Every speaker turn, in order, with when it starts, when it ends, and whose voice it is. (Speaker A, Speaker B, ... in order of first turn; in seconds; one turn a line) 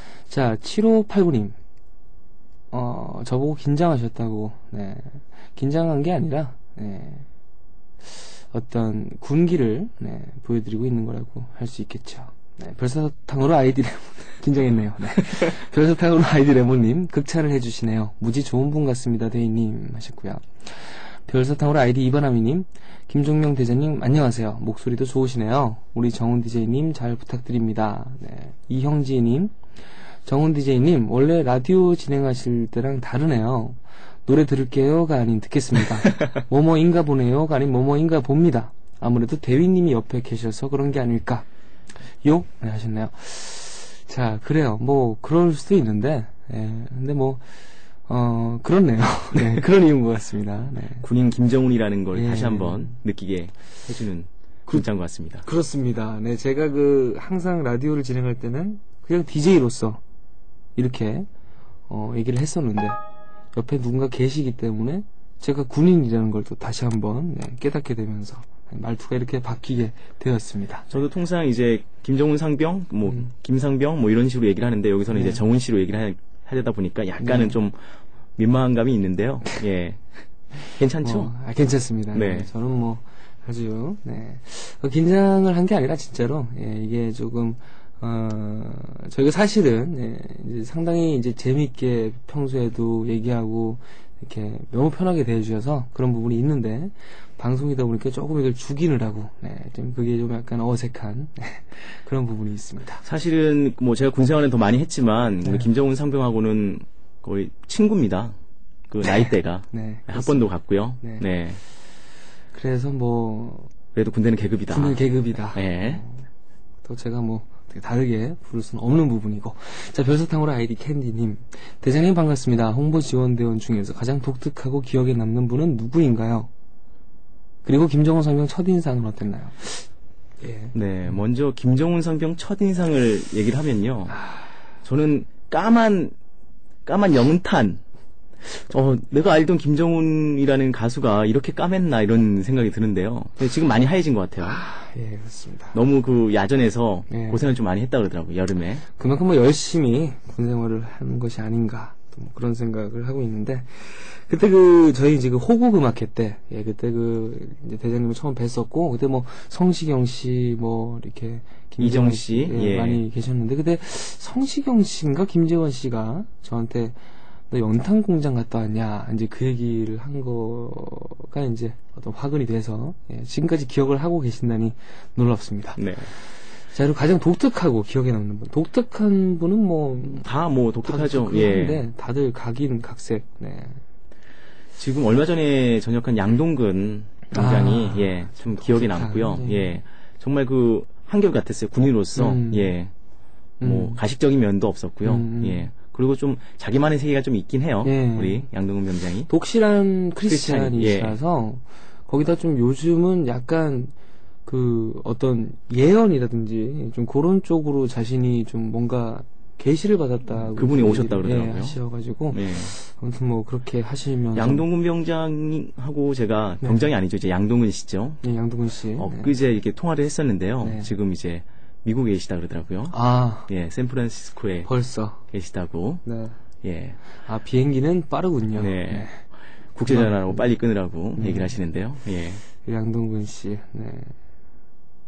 Speaker A: 0.3-1.6
Speaker A: 2.7-7.3
Speaker A: 8.5-29.5
Speaker A: 30.2-41.5
Speaker A: 42.2-47.4
Speaker A: 48.1-51.0
Speaker B: 51.0-55.5
Speaker A: 52.1-52.9
Speaker A: 55.4-60.0
Speaker A: 60.8-61.3
Speaker A: 61.9-63.0
Speaker A: 63.5-70.9
Speaker B: 70.9-77.8
Speaker A: 75.1-75.4
Speaker A: 77.2-77.6
Speaker B: 78.4-80.0
Speaker B: 80.7-81.3
Speaker A: 81.0-103.0
Speaker B: 82.1-82.5
Speaker B: 103.0-108.3
Speaker B: 108.9-111.6
Speaker A: 109.0-110.5
Speaker A: 112.5-113.7
Speaker B: 113.9-115.0
Speaker A: 114.7-116.2
Speaker B: 115.5-116.0
Speaker A: 116.8-126.5
Speaker A: 127.6-129.9
Speaker A: 130.4-131.2
Speaker B: 130.7-134.2
Speaker A: 134.1-134.5
Speaker B: 134.8-136.1
Speaker B: 136.8-137.8
Speaker B: 138.4-144.6
Speaker A: 144.4-145.8
Speaker B: 145.7-148.8
Speaker A: 147.1-147.4
Speaker A: 148.9-167.0
Speaker B: 161.8-163.0
Speaker A: 167.5-175.8
Speaker B: 175.8-176.1
Speaker A: 176.7-180.3
Speaker B: 180.2-181.8
Speaker A: 180.8-183.8
Speaker B: 184.8-192.9
Speaker A: 187.3-189.8
Speaker A: 192.2-192.7
Speaker A: 193.6-194.0
Speaker B: 193.6-199.3
Speaker A: 195.0-195.7
Speaker A: 197.8-198.5
Speaker A: 199.3-203.9
Speaker B: 200.2-201.2
Speaker A: 204.4-214.7
Speaker B: 210.4-211.8
Speaker B: 212.3-212.7
Speaker B: 214.3-218.2
Speaker A: 216.6-216.9
Speaker A: 218.2-219.3
Speaker B: 219.0-222.9
Speaker A: 220.6-220.9
Speaker A: 222.9-223.5
Speaker B: 223.5-224.7
Speaker A: 224.6-225.2
Speaker B: 225.3-226.0
Speaker A: 226.0-226.4
Speaker B: 226.6-227.0
Speaker A: 227.2-229.2
Speaker B: 228.6-232.4
Speaker A: 229.9-230.5
Speaker A: 231.2-231.6
Speaker A: 232.6-234.1